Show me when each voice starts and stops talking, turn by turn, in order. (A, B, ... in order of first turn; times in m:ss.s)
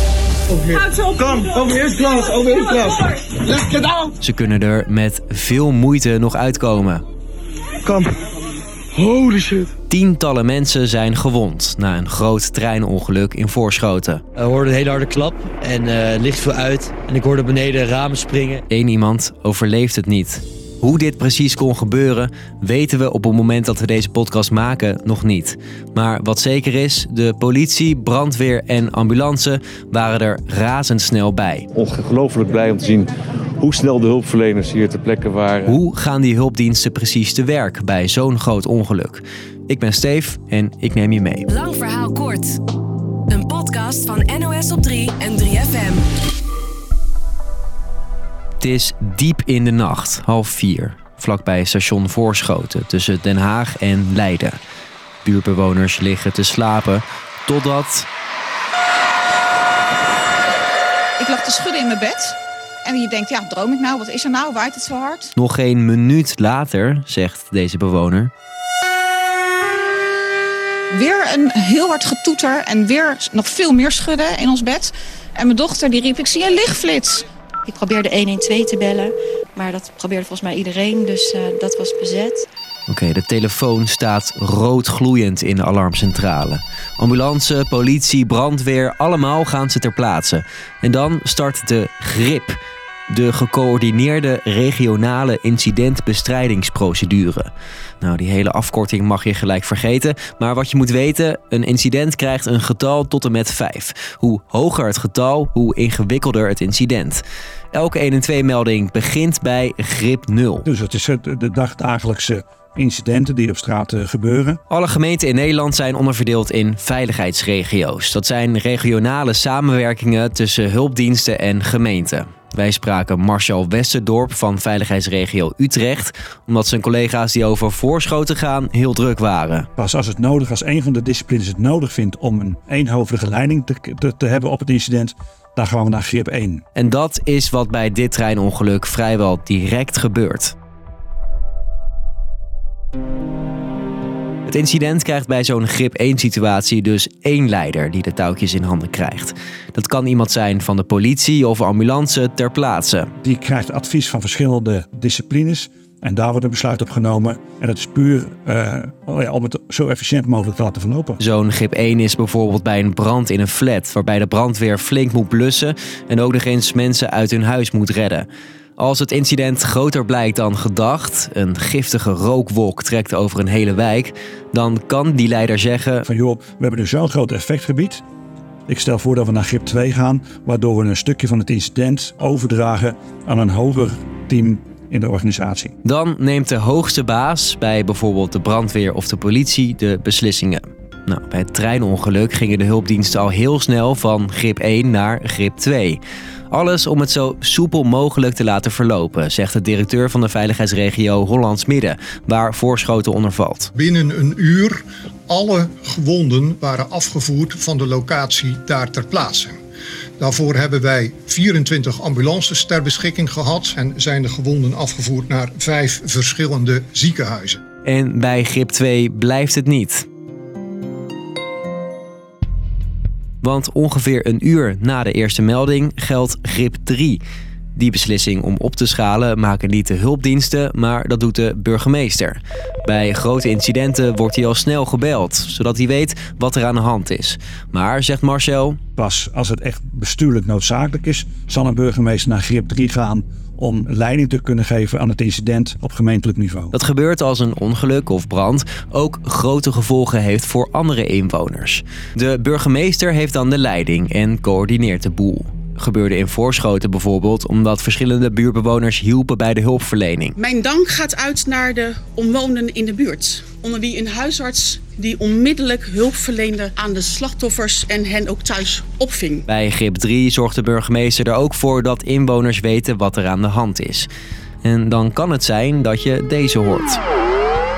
0:00.5-0:04.1 A
0:04.2-0:07.0 B
0:07.8-0:08.2 A
0:08.9-0:09.7 A
0:09.9-0:14.2 B
0:14.4-0:18.6 C
0:18.7-0:31.7 B
0:31.7-0:35.8 D
0:35.7-0:41.4 B
0:41.5-0:42.6 E
0:43.3-0:46.0 E
0:48.6-0:54.6 B
0:55.2-0:58.1 B
1:01.2-1:05.3 F
1:05.4-1:08.3 B
1:10.9-1:17.2 F
1:17.6-1:22.4 G
1:22.9-1:32.6 B
1:33.1-1:37.5 B
1:38.0-1:47.2 B
1:47.7-1:50.6 B
1:50.6-1:54.6 H
1:54.7-2:09.7 B
2:09.8-2:16.6 H
2:16.8-2:20.5 B
2:24.4-2:33.1 B
2:33.2-2:41.2 H
2:41.2-2:48.2 B
2:48.8-2:56.0 B
2:56.1-2:58.0 H
2:58.7-3:05.7 H
3:05.8-3:16.0 B
3:16.5-3:23.7 B
3:23.7-3:29.6 I
3:30.2-3:37.6 I
3:37.8-3:40.0 B
3:43.4-3:47.2 B
3:47.8-3:58.8 B
3:59.0-4:06.7 H
4:06.7-4:20.3 B
4:20.4-4:29.4 J
4:29.5-4:34.1 B
4:34.6-4:37.0 B